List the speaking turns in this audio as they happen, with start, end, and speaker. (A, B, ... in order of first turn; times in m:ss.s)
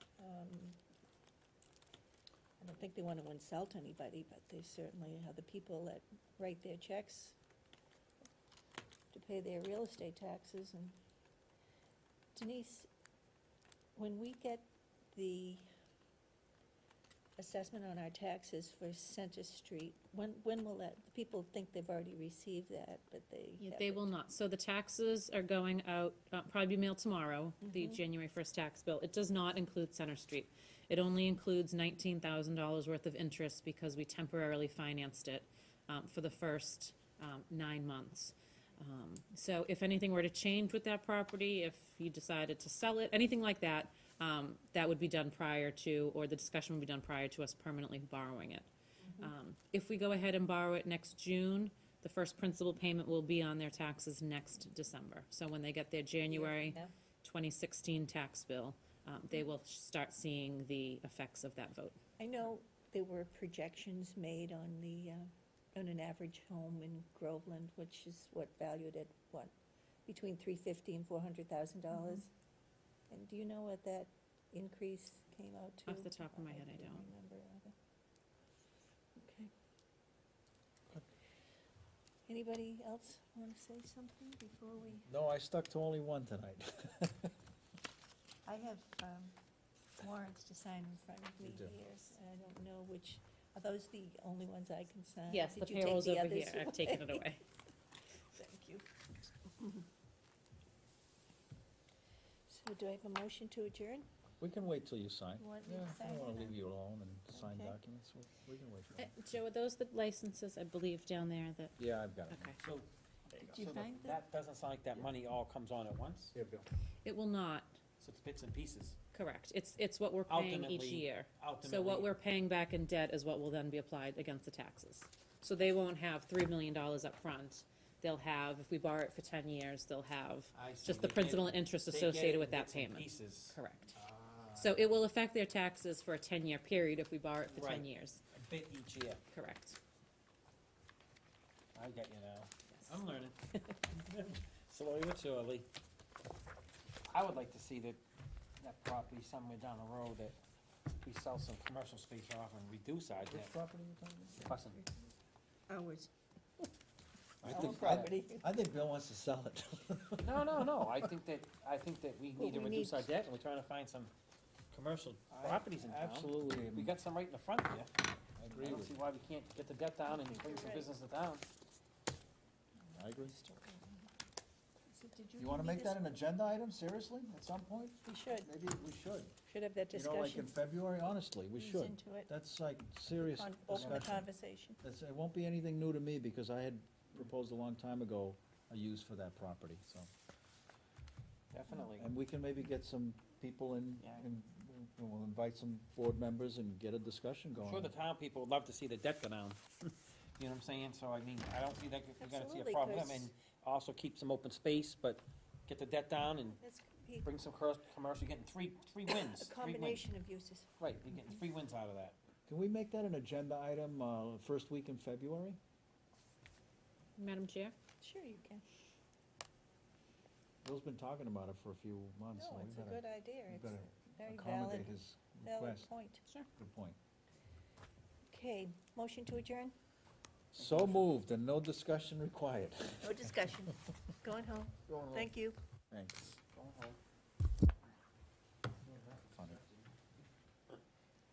0:00.2-0:00.8 A
0:02.6-0:07.4 A
0:09.1-0:11.0 A
0:12.4-0:12.9 A
0:14.0-0:15.7 A
0:17.4-0:24.1 A
0:23.6-0:48.7 B
0:27.6-0:28.0 A
0:49.1-0:49.3 A
0:49.2-1:02.0 B
0:56.3-0:56.9 A
1:02.2-1:09.5 A
1:10.1-1:12.3 A
1:13.1-1:17.8 A
1:15.9-1:17.0 B
1:19.2-1:19.5 A
1:22.3-1:25.1 A
1:25.1-1:27.3 C
1:28.5-1:29.4 A
1:30.0-1:37.3 A
1:31.4-1:31.8 C
1:35.3-1:37.4 B
1:38.2-1:38.9 A
1:39.5-1:39.8 A
1:42.5-1:44.1 A
1:44.4-1:49.1 C
1:45.4-1:46.6 A
1:47.3-1:47.8 A
1:49.0-1:51.8 B
1:51.8-1:52.6 C
1:52.3-1:52.6 B
1:52.6-1:52.9 D
1:53.4-1:54.2 A
1:53.4-1:56.3 D
1:56.3-1:56.7 C
1:57.0-1:57.8 B
1:58.0-1:59.0 D
1:59.1-2:14.0 B
2:00.3-2:02.1 D
2:10.5-2:14.9 D
2:14.6-2:18.2 B
2:17.5-2:19.2 D
2:19.3-2:19.8 B
2:21.8-2:25.7 D
2:22.7-2:23.0 B
2:27.1-2:28.0 D
2:28.6-2:30.4 D
2:31.0-2:33.5 D
2:33.3-2:34.6 C
2:34.5-2:34.8 D
2:34.6-2:35.1 A
2:35.7-2:36.1 A
2:37.4-2:38.1 D
2:37.4-2:41.0 C
2:37.4-2:38.5 A
2:40.2-2:44.1 D
2:42.4-2:43.1 A
2:44.7-2:47.9 D
2:45.3-2:46.9 C
2:48.4-2:49.0 C
2:48.5-2:51.5 D
2:50.1-2:50.9 A
2:52.9-2:53.4 C
2:53.2-2:54.1 A
2:54.9-2:56.2 A
2:55.4-2:59.4 C
2:58.0-2:58.5 A
2:59.4-3:00.5 A
2:59.9-3:04.3 C
3:01.6-3:02.3 A
3:03.2-3:04.8 A
3:03.7-3:04.1 D
3:04.8-3:10.1 C
3:11.5-3:12.1 D
3:12.0-3:18.0 C
3:17.6-3:26.6 D
3:22.2-3:23.3 A
3:26.6-3:27.3 A
3:27.2-3:30.1 D
3:29.1-3:30.7 A
3:30.8-3:32.2 D
3:32.5-3:35.6 C
3:37.2-3:37.8 B
3:38.0-3:38.6 A
3:40.6-3:45.9 C
3:42.3-3:46.2 A
3:46.6-3:47.0 C
3:48.3-3:49.7 A
3:50.5-3:53.3 C
3:50.6-3:51.0 D
3:53.0-3:55.6 A
3:54.9-3:55.3 C
3:55.9-3:56.4 C
3:56.5-3:57.0 D
3:58.8-3:59.9 D
3:59.3-3:59.6 C